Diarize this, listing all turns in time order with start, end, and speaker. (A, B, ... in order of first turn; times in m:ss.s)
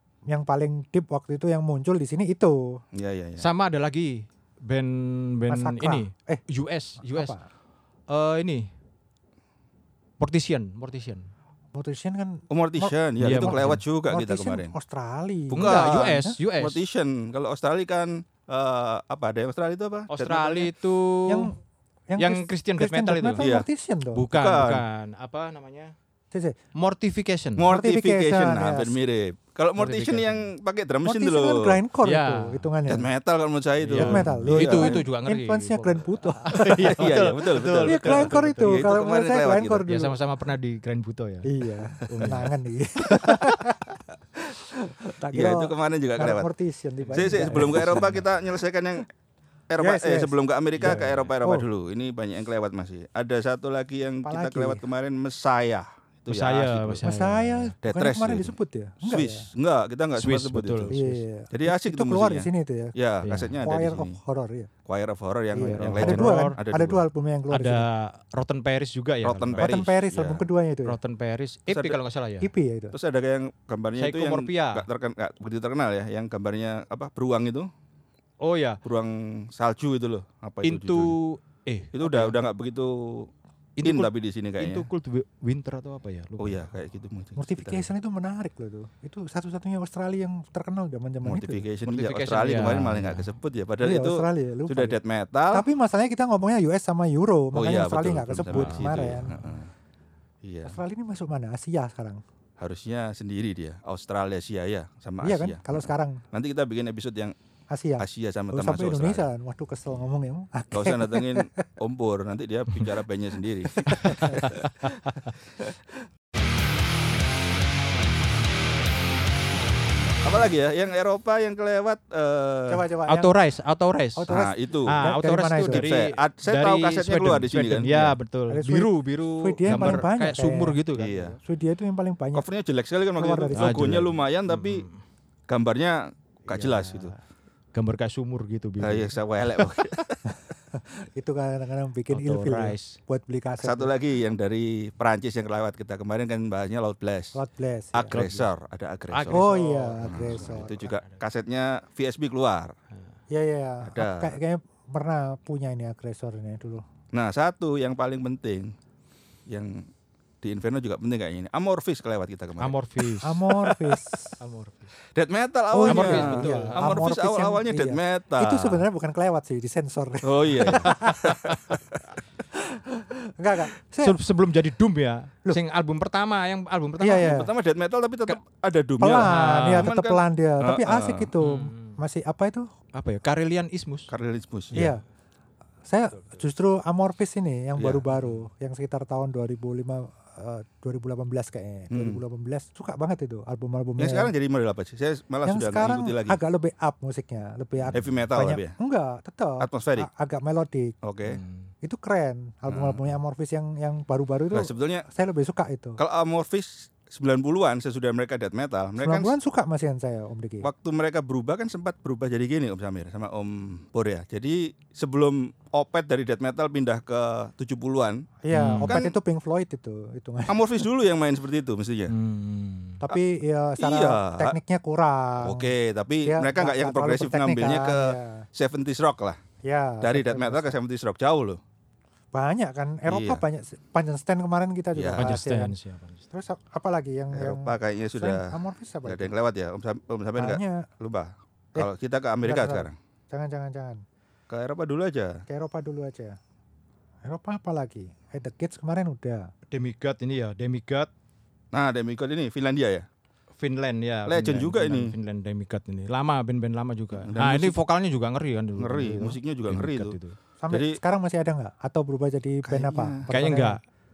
0:00.3-0:02.8 A
0:02.9-0:03.5 B
0:03.4-0:07.3 C
0:05.5-0:06.4 A
0:07.0-0:07.5 A
0:08.1-0:08.7 C
0:10.2-0:11.3 C
0:11.7-0:16.4 A
0:12.5-0:14.7 B
0:13.2-0:13.8 C
0:15.5-0:20.7 B
0:15.6-0:16.8 C
0:20.1-0:21.5 C
0:21.3-0:21.5 A
0:22.1-0:24.2 A
0:22.2-0:23.4 C
0:23.4-0:23.7 B
0:24.1-0:26.0 C
0:24.3-0:24.8 B
0:26.3-0:26.6 A
0:26.8-0:27.7 C
0:27.6-0:31.8 B
0:27.7-0:29.0 A
0:29.8-0:30.5 C
0:31.0-0:33.1 A
0:32.0-0:32.7 C
0:32.9-0:35.0 B
0:33.8-0:38.8 C
0:33.9-0:37.2 A
0:36.7-0:39.9 B
0:37.9-0:40.2 A
0:39.9-0:42.5 C
0:41.5-0:48.2 A
0:45.3-0:46.5 B
0:47.0-0:48.2 C
0:47.1-0:49.1 B
0:49.7-0:57.1 B
0:49.8-0:51.7 A
0:50.8-0:51.3 C
0:54.2-0:54.8 A
0:56.3-0:57.7 C
0:57.0-0:59.5 A
0:57.8-1:01.0 B
1:00.2-1:01.2 C
1:00.9-1:02.9 A
1:01.5-1:04.2 B
1:03.2-1:03.6 C
1:03.6-1:04.7 A
1:04.9-1:07.0 B
1:05.5-1:07.8 A
1:05.7-1:06.6 C
1:07.5-1:09.8 C
1:09.2-1:10.5 B
1:09.6-1:11.0 A
1:10.8-1:12.5 C
1:11.7-1:12.0 B
1:12.4-1:13.0 A
1:12.9-1:17.7 B
1:14.0-1:14.9 C
1:18.4-1:18.8 C
1:18.8-1:21.2 B
1:20.6-1:22.4 C
1:21.9-1:23.3 B
1:23.8-1:26.7 C
1:23.8-1:24.9 B
1:26.4-1:27.9 B
1:27.4-1:31.7 A
1:31.2-1:35.7 B
1:31.8-1:33.3 C
1:33.8-1:35.0 A
1:35.5-1:39.5 A
1:37.5-1:39.7 B
1:38.5-1:38.9 C
1:40.4-1:40.8 B
1:40.7-1:42.2 A
1:42.6-1:47.4 B
1:45.2-1:46.2 A
1:47.7-1:51.6 A
1:48.0-1:49.2 B
1:50.7-1:54.9 B
1:53.8-1:54.5 A
1:53.9-1:55.3 C
2:00.2-2:02.8 B
2:02.7-2:03.3 A
2:03.1-2:04.3 C
2:04.2-2:05.9 A
2:04.3-2:05.0 B
2:04.9-2:11.3 C
2:05.7-2:08.2 B
2:08.5-2:10.8 A
2:11.0-2:11.4 B
2:11.4-2:12.5 A
2:12.3-2:14.9 B
2:13.2-2:14.0 A
2:13.5-2:15.0 C
2:15.5-2:17.1 B
2:16.5-2:17.2 C
2:17.7-2:19.9 C
2:18.8-2:20.2 B
2:20.7-2:23.9 A
2:22.1-2:23.0 C
2:23.6-2:27.4 B
2:27.3-2:28.2 A
2:27.9-2:29.5 B
2:28.1-2:28.5 C
2:29.1-2:31.2 C
2:29.3-2:30.9 A
2:30.0-2:32.8 B
2:33.3-2:36.8 A
2:33.8-2:34.4 B
2:37.1-2:38.8 B
2:39.5-2:39.9 B
2:40.4-2:42.8 B
2:42.6-2:43.5 C
2:43.2-2:44.4 A
2:44.4-2:44.9 C
2:45.1-2:48.9 B
2:45.7-2:51.4 A
2:45.9-2:47.0 C
2:50.2-2:52.0 B
2:51.1-2:51.7 C
2:52.9-2:54.2 A
2:54.0-2:57.4 C
2:57.0-2:57.5 A
2:57.2-3:01.3 B
2:59.0-3:02.7 A
2:59.2-2:59.9 C
3:01.4-3:02.0 C
3:03.0-3:04.1 C
3:04.1-3:04.9 B
3:04.7-3:05.0 A
3:05.9-3:14.3 A
3:06.1-3:06.4 C
3:07.8-3:08.0 B
3:08.2-3:08.4 C
3:11.9-3:12.2 B
3:14.0-3:16.4 B
3:15.5-3:20.9 A
3:17.8-3:18.2 C
3:17.9-3:18.7 B
3:19.6-3:20.1 B
3:21.0-3:21.4 B
3:21.2-3:21.7 C
3:21.8-3:26.0 A
3:22.7-3:23.1 B
3:24.5-3:25.1 B
3:26.0-3:29.3 B
3:29.0-3:30.7 A
3:30.6-3:38.2 B
3:38.4-3:40.7 A
3:38.5-3:39.0 C
3:38.8-3:39.2 B
3:40.5-3:42.1 B
3:42.1-3:43.0 C
3:43.0-3:45.7 A
3:43.8-3:44.6 B
3:45.4-3:49.4 B
3:46.3-3:48.5 A
3:49.6-3:50.8 A
3:50.0-3:51.6 B
3:52.3-3:55.8 A
3:53.1-3:53.4 B
3:55.0-3:55.3 B
3:55.2-3:56.3 C
3:56.3-3:59.3 A
3:57.3-4:03.0 B
4:00.4-4:00.9 A
4:02.4-4:04.0 A
4:04.5-4:05.4 B
4:05.5-4:06.4 A
4:07.2-4:09.5 A
4:09.7-4:11.1 C
4:11.7-4:13.1 B
4:13.6-4:20.4 C
4:14.3-4:15.1 B
4:17.2-4:17.8 B
4:18.8-4:20.2 B
4:20.6-4:23.8 A
4:20.7-4:21.0 B
4:22.6-4:23.3 B
4:23.3-4:23.8 C